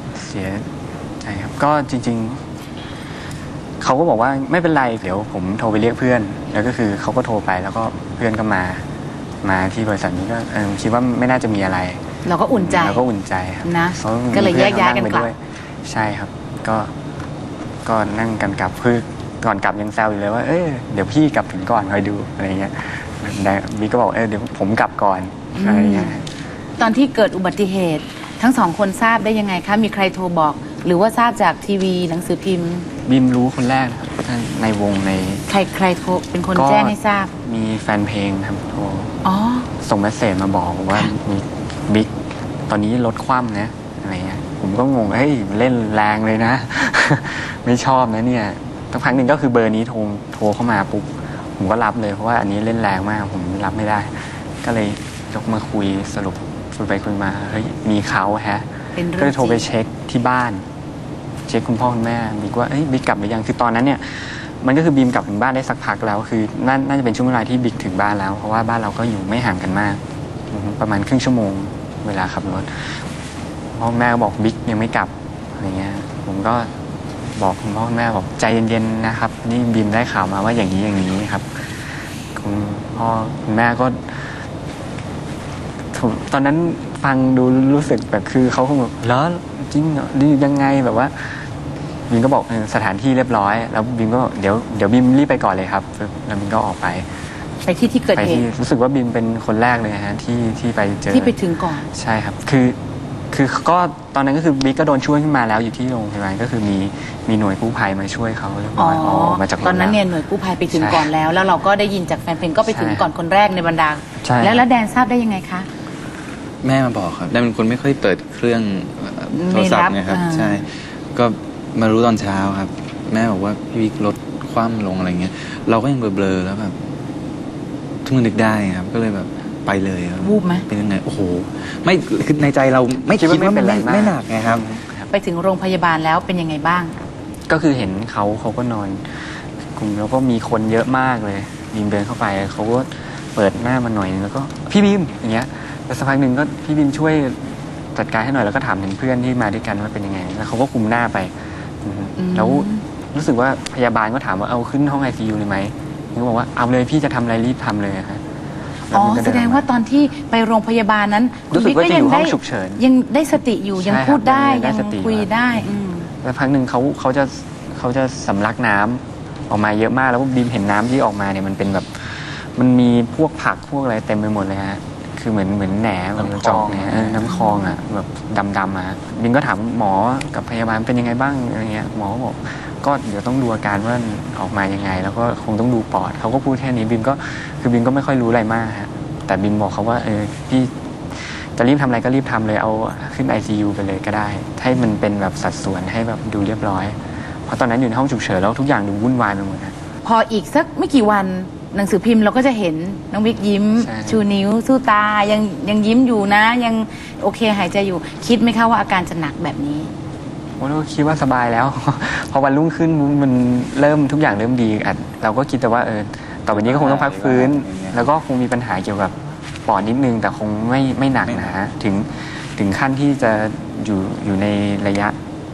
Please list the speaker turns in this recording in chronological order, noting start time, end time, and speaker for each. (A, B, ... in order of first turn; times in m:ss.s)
0:00.1-0:02.4 A
0:03.8-0:08.9 A
0:09.4-0:16.9 A
0:12.2-0:13.0 B
0:13.6-0:15.3 B
0:17.8-0:26.3 A
0:25.6-0:26.2 B
0:26.8-0:32.9 B
0:33.1-0:35.4 A
0:35.5-0:37.3 B
0:36.6-0:39.2 A
0:39.2-0:39.7 B
0:39.8-0:42.1 A
0:42.7-0:58.7 A
0:59.0-0:59.7 B
0:59.2-1:00.6 A
1:01.5-1:13.1 A
1:13.8-1:16.7 A
1:17.3-1:24.4 A
1:25.9-1:31.5 A
1:32.1-1:37.1 A
1:37.6-1:38.4 B
1:38.2-1:41.3 A
1:41.1-1:41.9 B
1:41.9-1:42.8 A
1:43.3-1:50.0 A
1:48.8-1:55.7 B
1:50.7-1:51.1 A
1:52.6-1:53.1 A
1:54.2-1:54.6 A
1:56.6-2:06.8 C
1:59.3-2:00.7 B
2:08.0-2:14.7 C
2:10.2-2:10.7 B
2:13.1-2:15.1 A
2:15.1-2:17.0 B
2:17.5-2:38.2 A
2:32.2-2:32.8 B
2:38.9-2:39.7 A
2:38.9-2:46.1 B
2:41.5-2:42.8 A
2:43.8-2:45.3 A
2:46.2-3:19.8 A
2:56.2-2:57.4 C
3:20.0-3:29.9 B
3:23.8-3:24.2 A
3:30.6-3:45.2 A
3:36.5-3:38.1 C
3:41.2-3:41.5 C